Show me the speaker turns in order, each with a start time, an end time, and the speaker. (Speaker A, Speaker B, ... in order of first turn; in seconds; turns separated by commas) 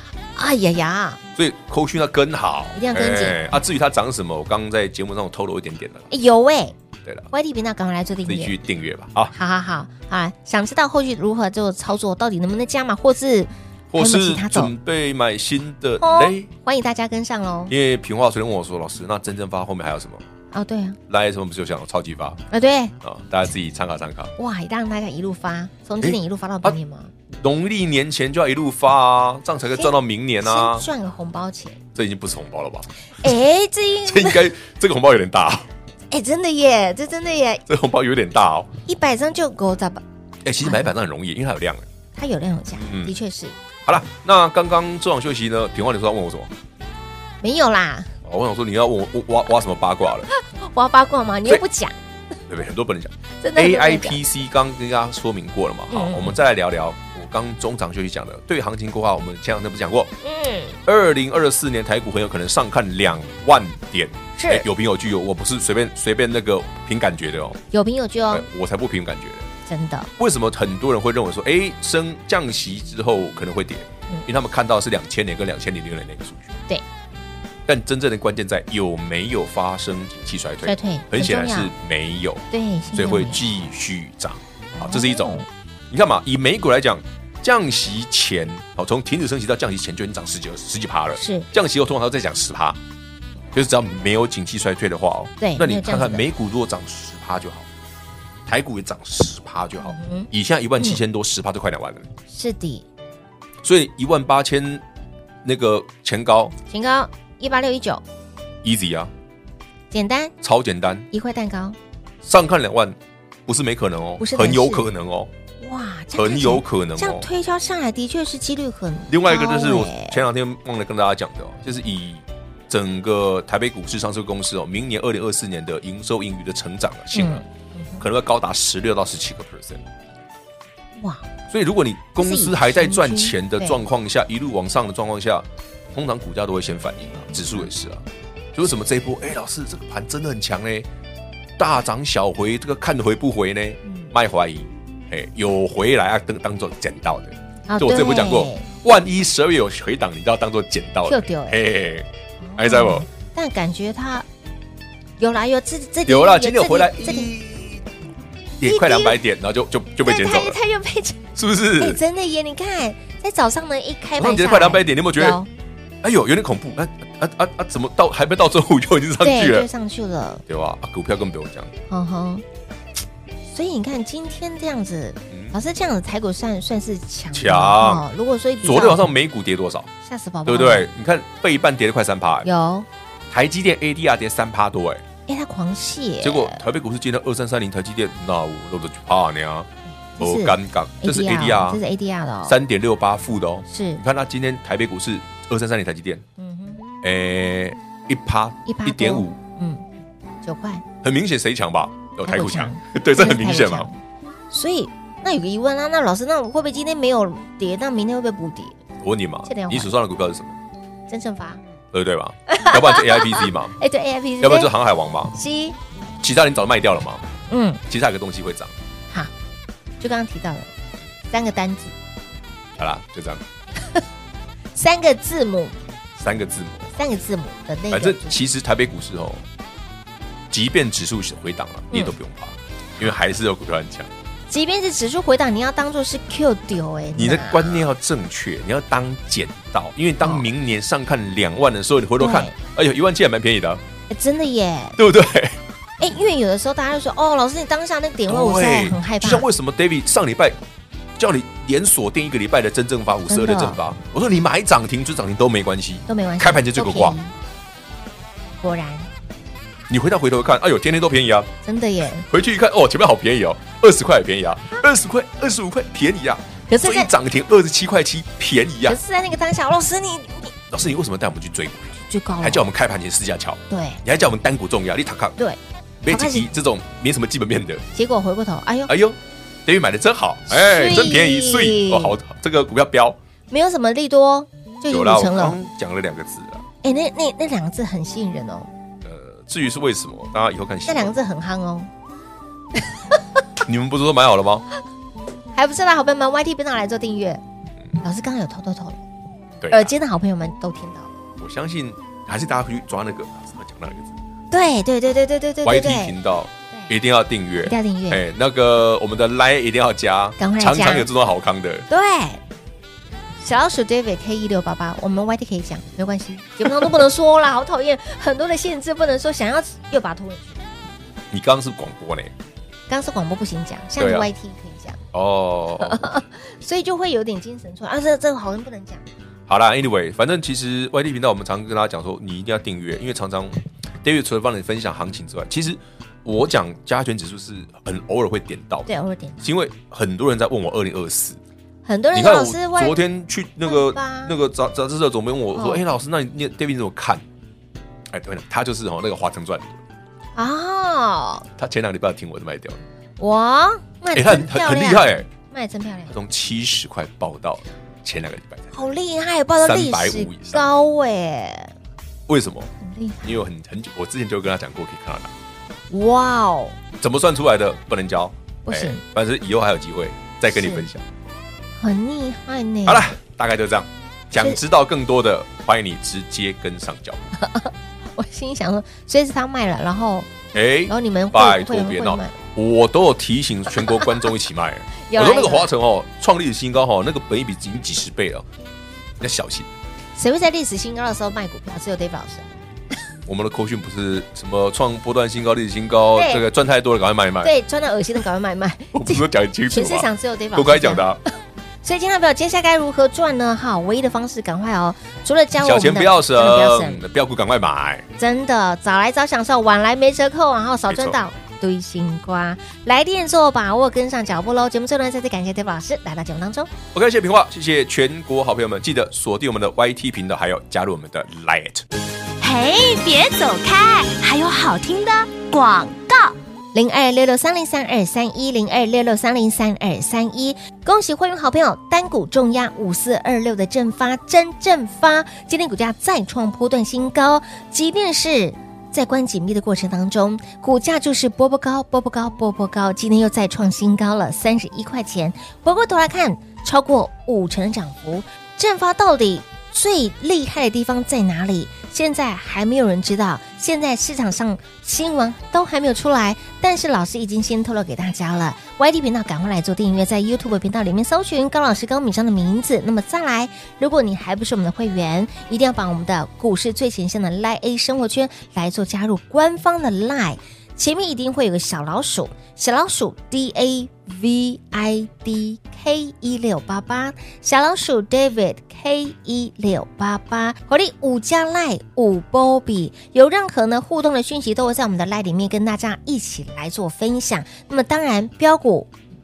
Speaker A: 0.3-1.2, Speaker B: 1.4-6.1, Speaker A: 2.7-3.6, Speaker A: 6.1-6.8, Speaker A: 7.3-8.6, Speaker B: 8.2-9.3, Speaker A: 9.3-14.7, Speaker B: 13.9-16.5, Speaker A: 16.0-17.7, Speaker B: 17.7-20.2, Speaker A: 20.5-21.0, Speaker B: 21.1-22.4, Speaker A: 22.5-22.9, Speaker B: 23.0-24.3, Speaker A: 24.4-27.1, Speaker B: 26.0-26.8, Speaker B: 27.4-30.9, Speaker A: 29.8-31.8, Speaker B: 31.9-32.9, Speaker A: 33.2-34.4, Speaker B: 34.0-35.7, Speaker A: 36.1-37.6, Speaker B: 37.7-38.7, Speaker A: 38.9-40.0, Speaker B: 40.4-41.9, Speaker A: 40.6-40.9, Speaker A: 42.1-43.6, Speaker B: 42.7-43.1, Speaker B: 43.9-46.5, Speaker A: 47.4-48.1, Speaker B: 48.2-50.3, Speaker A: 50.3-52.0, Speaker B: 52.5-60.1, Speaker A: 53.4-54.2, Speaker A: 55.9-56.4, Speaker A: 60.2-60.8, Speaker B: 60.9-67.6, Speaker A: 64.4-64.7, Speaker A: 67.7-68.5, Speaker B: 68.3-69.5, Speaker A: 69.7-70.1, Speaker B: 70.2-76.5, Speaker B: 77.7-92.8, Speaker A: 80.6-81.7, Speaker A: 82.5-83.4, Speaker A: 84.7-85.5, Speaker A: 91.1-91.5, Speaker B: 93.5-97.7, Speaker A: 95.4-96.2, Speaker B: 98.5-102.1, Speaker A: 99.8-101.0, Speaker A: 102.3-102.8, Speaker B: 103.6-104.8, Speaker B: 105.4-106.5, Speaker A: 106.7-108.0, Speaker B: 108.6-109.1, Speaker A: 109.9-110.3, Speaker B: 110.4-111.1, Speaker A: 111.1-111.8, Speaker B: 112.2-115.3, Speaker A: 114.2-114.9, Speaker A: 115.6-120.2, Speaker B: 116.1-117.3, Speaker B: 119.1-127.4, Speaker A: 127.1-128.0, Speaker B: 128.0-129.8, Speaker A: 131.0-131.2, Speaker B: 131.5-140.9, Speaker A: 132.2-133.8, Speaker B: 141.6-153.1, Speaker A: 143.8-144.1, Speaker A: 147.7-148.7, Speaker A: 151.1-151.6, Speaker A: 152.4-154.2, Speaker A: 155.2-157.3, Speaker B: 156.1-157.8, Speaker B: 158.6-160.6, Speaker A: 158.6-159.2, Speaker A: 160.0-161.2, Speaker B: 161.3-162.0, Speaker A: 161.8-165.5, Speaker B: 164.2-165.4, Speaker B: 166.0-169.7, Speaker A: 169.2-170.4, Speaker B: 170.5-171.7, Speaker A: 171.9-172.4, Speaker A: 173.5-179.1, Speaker B: 175.3-175.6, Speaker B: 177.3-178.0, Speaker B: 178.6-179.9, Speaker A: 180.0-180.9, Speaker B: 180.4-182.5, Speaker A: 182.4-182.9, Speaker B: 183.3-185.0, Speaker A: 185.3-186.6, Speaker B: 186.2-191.8, Speaker A: 190.1-192.6, Speaker B: 192.4-196.2, Speaker A: 193.7-194.0, Speaker A: 196.4-196.8, Speaker B: 197.0-199.4, Speaker A: 198.7-199.8, Speaker A: 200.4-200.8, Speaker B: 201.0-203.9, Speaker A: 202.2-204.0, Speaker A: 204.5-208.8, Speaker B: 209.0-210.6, Speaker A: 209.4-209.9, Speaker A: 211.1-211.6, Speaker B: 211.9-213.7, Speaker A: 212.5-214.7, Speaker B: 214.4-215.3, Speaker A: 215.3-215.8, Speaker B: 216.2-217.2, Speaker A: 217.5-217.8, Speaker B: 217.9-218.7, Speaker A: 220.0-220.7, Speaker A: 221.3-221.9, Speaker B: 222.8-223.4, Speaker A: 224.7-225.8, Speaker B: 226.2-226.9, Speaker A: 226.9-228.4, Speaker B: 227.9-229.4, Speaker B: 230.5-234.1, Speaker A: 231.9-232.2, Speaker A: 234.5-237.9, Speaker B: 237.2-243.8, Speaker A: 240.2-240.4, Speaker A: 242.2-242.5, Speaker A: 244.1-245.0, Speaker B: 245.0-245.6, Speaker A: 246.0-249.4, Speaker B: 248.3-250.6, Speaker B: 251.2-257.2, Speaker A: 253.3-253.8, Speaker A: 256.1-257.3, Speaker A: 258.6-259.1, Speaker B: 259.9-261.5, Speaker A: 261.6-262.3, Speaker B: 262.3-269.0, Speaker A: 266.7-267.1, Speaker A: 268.9-270.5, Speaker B: 270.7-275.4, Speaker A: 272.0-272.7, Speaker A: 273.7-274.0, Speaker A: 275.4-276.5, Speaker B: 276.0-277.8, Speaker A: 277.9-278.9, Speaker B: 278.9-283.2, Speaker A: 280.5-282.2, Speaker A: 283.5-285.6, Speaker B: 284.9-286.6, Speaker A: 286.8-288.7, Speaker B: 289.0-291.2, Speaker A: 290.9-291.9, Speaker B: 293.6-294.6, Speaker A: 295.5-297.4, Speaker A: 298.0-299.0, Speaker B: 299.6-299.9, Speaker A: 299.7-301.1, Speaker B: 301.4-304.1, Speaker A: 304.5-306.1, Speaker B: 305.6-311.9, Speaker A: 307.6-308.2, Speaker A: 310.4-311.1, Speaker A: 311.9-312.4, Speaker A: 313.4-320.6, Speaker B: 321.3-322.3, Speaker A: 322.9-325.0, Speaker B: 324.0-324.3, Speaker B: 325.1-326.1, Speaker A: 325.8-329.0, Speaker B: 329.5-338.9, Speaker A: 338.9-339.5, Speaker B: 339.4-341.4, Speaker A: 341.9-343.0, Speaker B: 342.1-347.2, Speaker A: 343.6-344.3, Speaker A: 345.5-345.8, Speaker B: 348.1-349.8, Speaker A: 350.4-351.4, Speaker B: 351.6-352.8, Speaker A: 353.2-356.1, Speaker B: 354.1-355.3, Speaker B: 356.1-358.9, Speaker A: 358.7-361.7, Speaker B: 359.6-360.6, Speaker B: 362.3-362.7, Speaker A: 362.8-363.3, Speaker B: 363.2-365.3, Speaker A: 365.9-366.8, Speaker B: 367.0-371.0, Speaker A: 368.6-369.0, Speaker A: 370.5-370.9, Speaker A: 371.8-373.1, Speaker B: 372.9-377.3, Speaker A: 377.4-380.3, Speaker B: 380.5-388.4, Speaker A: 380.9-382.4, Speaker A: 385.0-385.7, Speaker B: 389.2-389.7, Speaker A: 390.1-392.5, Speaker B: 393.2-397.5, Speaker A: 396.1-396.4, Speaker A: 397.4-401.0, Speaker B: 398.9-401.2, Speaker A: 401.8-407.0, Speaker B: 405.6-408.1, Speaker A: 408.2-416.7, Speaker B: 410.9-411.2, Speaker B: 416.9-421.9, Speaker C: 422.4-426.4, Speaker A: 426.7-488.9